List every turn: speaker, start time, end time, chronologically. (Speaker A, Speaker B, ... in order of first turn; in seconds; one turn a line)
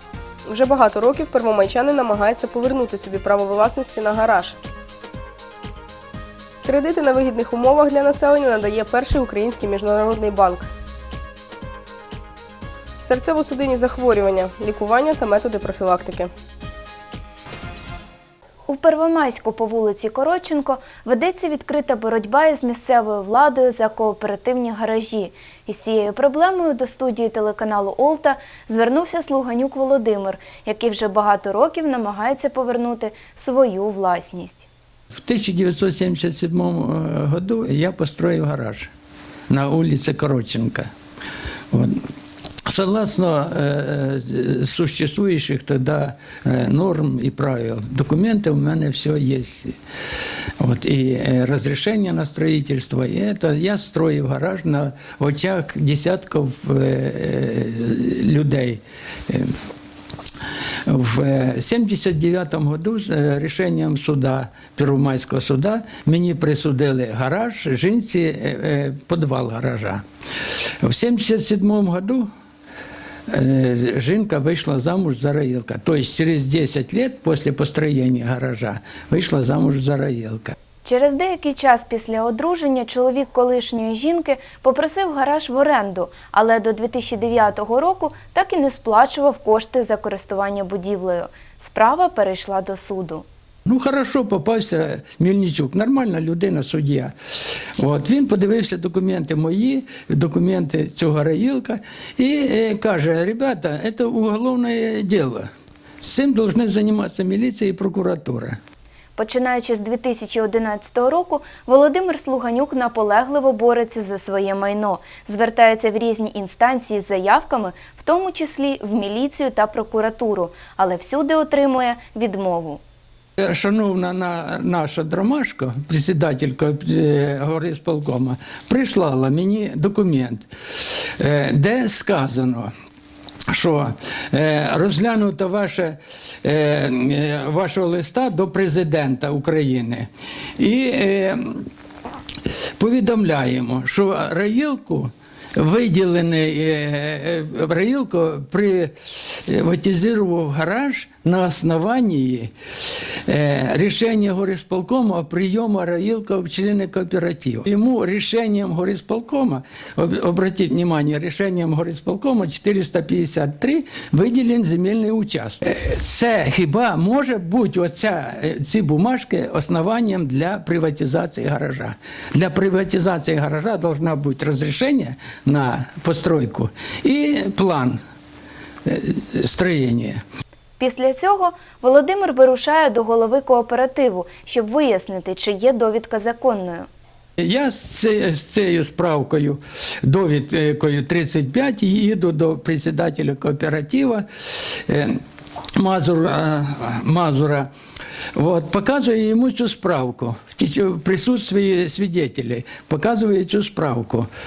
Speaker A: 0.5-4.6
Speaker A: 6.6-10.7
Speaker A: 13.0-16.3
Speaker B: 18.7-34.7
Speaker C: 35.1-38.9
Speaker C: 39.5-40.9
Speaker C: 41.7-42.1
Speaker C: 42.7-49.8
Speaker C: 50.6-59.5
Speaker C: 60.9-70.0
Speaker C: 70.8-72.3
Speaker C: 73.3-80.5
Speaker B: 80.8-93.3
Speaker C: 93.7-97.1
Speaker C: 97.8-105.5
Speaker C: 106.0-108.6
Speaker B: 109.2-122.8
Speaker C: 123.4-130.5
Speaker C: 131.2-132.7
Speaker C: 133.5-141.7
Speaker C: 142.8-152.5
Speaker C: 153.3-178.0
Speaker C: 178.9-180.2
Speaker B: 180.8-186.9
Speaker C: 187.4-195.2
Speaker C: 195.8-197.7
Speaker C: 198.4-204.3